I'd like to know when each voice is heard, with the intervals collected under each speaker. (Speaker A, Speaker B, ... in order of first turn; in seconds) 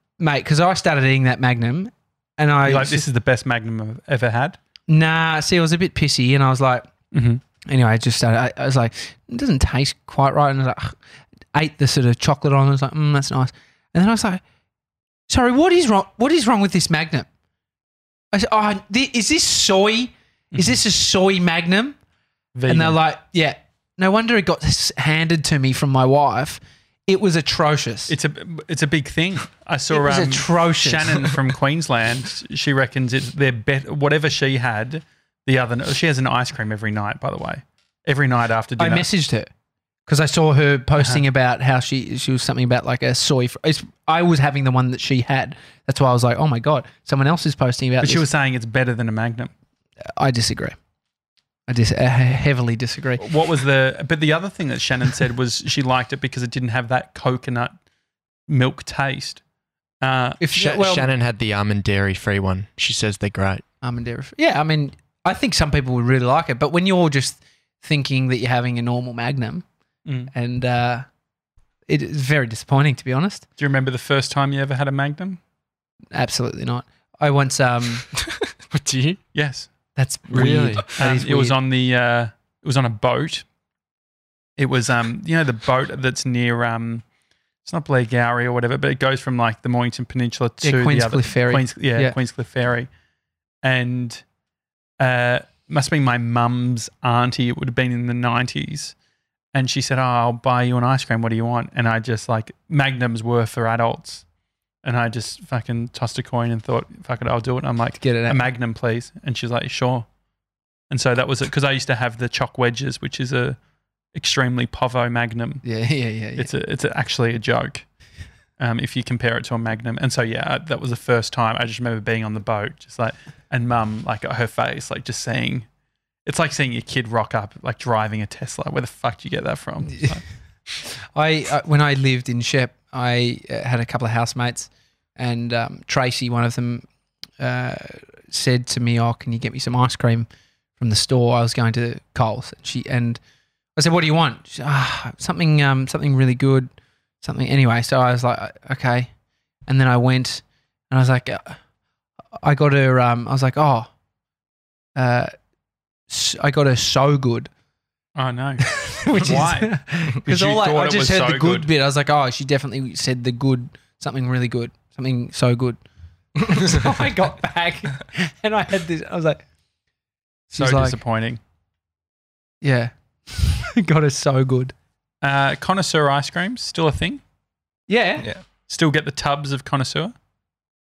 Speaker A: 0.2-3.0, 4.9-6.9, 7.7-11.0, 11.5-14.4, 15.3-17.3, 18.3-22.0, 22.7-28.1, 29.9-31.3, 38.8-39.5, 40.1-48.2, 50.2-50.8, 51.7-53.2, 60.4-61.1, 63.8-69.7, 70.3-71.1, 71.9-73.5, 76.1-78.1, 80.0-81.6, 90.6-92.2, 108.0-108.5, 115.6-116.5, 131.1-136.8, 137.4-143.2, 143.8-149.1, 149.7-151.6, 152.4-153.9, 154.9-155.3, 156.1-157.5, 158.6-165.8, 166.4-169.4, 170.5-171.0, 172.6-174.7, 177.9-178.3
Speaker B: 2.6-4.6, 7.1-7.4, 20.5-20.8, 22.6-23.0, 28.1-39.1, 48.0-49.5, 53.2-57.8, 58.5-59.4, 60.0-60.4, 70.1-70.3, 73.6-75.4, 79.3-79.7, 80.3-83.5, 84.6-87.0, 87.7-92.9, 93.6-94.2, 95.0-99.0, 99.5-104.2, 104.8-110.1, 110.9-113.6, 114.2-115.6, 116.4-117.9, 118.6-125.7, 126.3-130.2, 158.2-161.7, 170.5-171.4, 175.2-177.2, 178.7-180.1
Speaker C: 60.5-63.6, 78.7-79.2, 80.3-80.8